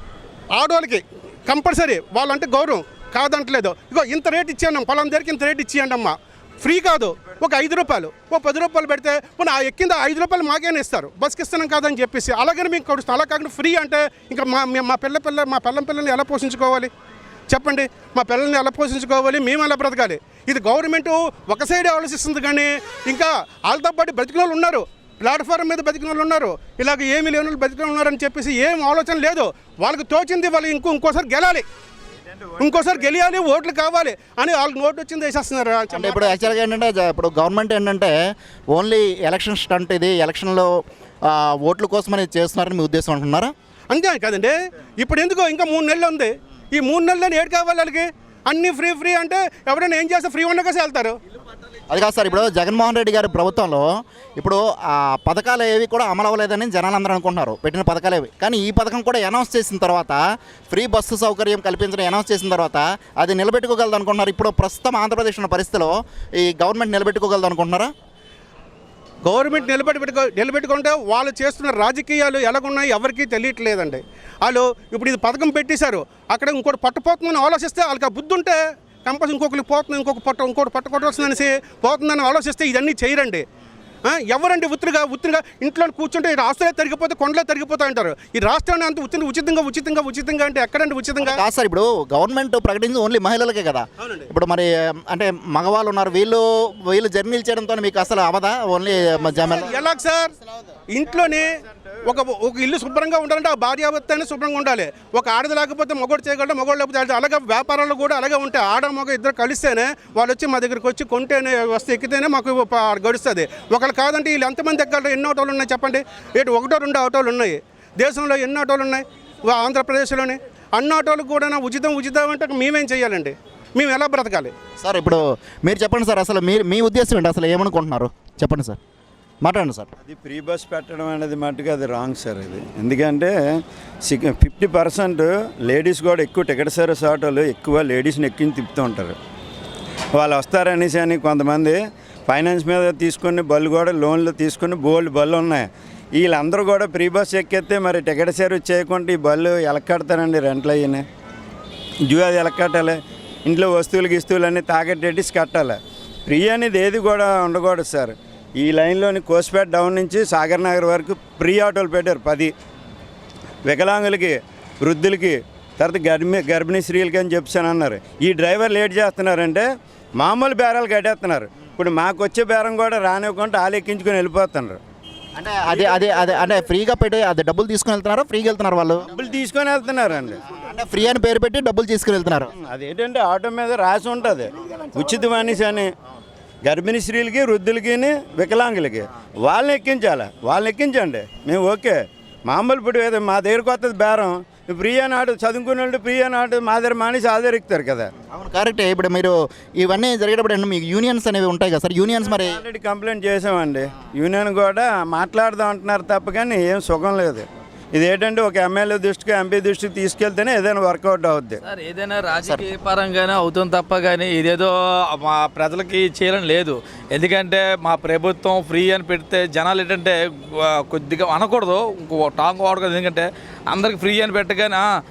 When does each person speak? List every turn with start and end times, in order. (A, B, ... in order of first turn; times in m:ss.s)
0:00.5-0:16.9 A
0:17.5-0:31.6 A
0:32.5-0:33.3 B
0:32.6-0:36.4 A
0:35.9-0:38.1 C
0:38.7-0:43.5 C
0:43.9-0:51.1 A
0:51.9-1:07.9 C
1:09.2-1:23.4 A
1:24.0-1:31.4 A
1:31.2-1:39.8 C
1:39.5-1:40.3 A
1:40.9-1:41.5 A
1:42.0-2:04.5 A
2:04.8-2:08.8 C
2:09.4-2:09.9 C
2:10.0-2:13.3 B
2:14.0-2:19.2 B
2:20.2-2:31.0 B
2:32.1-2:42.5 B
2:43.6-2:49.7 B
2:50.2-2:54.8 B
2:55.4-2:59.0 C
2:55.8-2:56.4 B
2:59.1-3:00.4 B
3:00.6-3:02.5 C
3:02.6-3:05.9 B
3:06.6-3:12.0 B
3:12.5-3:18.1 B
3:18.3-3:22.6 C
3:22.2-3:31.6 B
3:31.6-3:44.9 D